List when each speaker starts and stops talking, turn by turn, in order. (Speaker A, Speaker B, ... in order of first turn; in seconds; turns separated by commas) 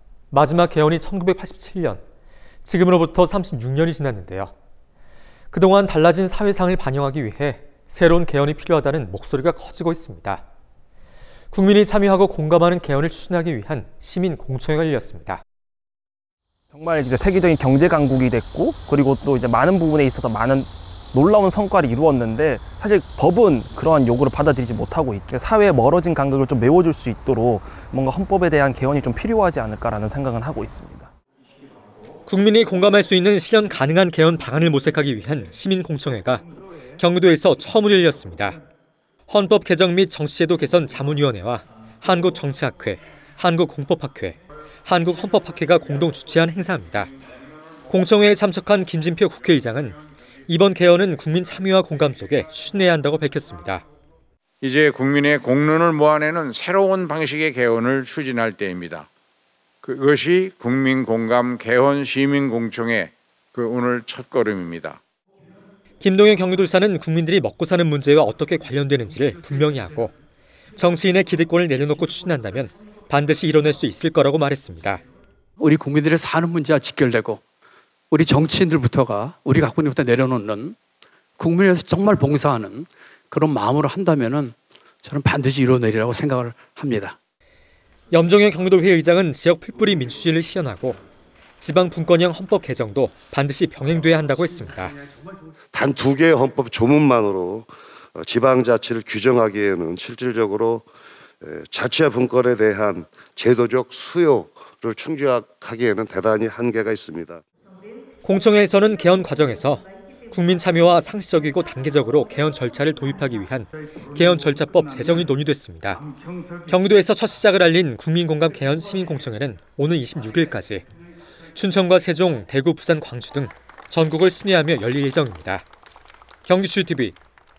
Speaker A: 0.3-2.0, Speaker A: 2.6-4.5, Speaker A: 5.5-10.4, Speaker A: 11.5-15.4, Speaker B: 16.7-31.1, Speaker A: 32.3-36.4, Speaker A: 37.0-38.6, Speaker A: 39.3-47.1, Speaker A: 47.9-53.8, Speaker C: 54.6-59.1, Speaker C: 59.8-65.0, Speaker A: 66.0-70.1, Speaker A: 70.8-75.0, Speaker D: 75.6-77.4, Speaker D: 78.1-80.8, Speaker D: 81.4-87.2, Speaker A: 88.1-91.0, Speaker A: 91.6-95.0, Speaker E: 95.7-100.9, Speaker E: 101.4-107.4, Speaker A: 108.2-116.0, Speaker A: 116.7-120.8, Speaker A: 121.5-125.7, Speaker A: 126.4-127.2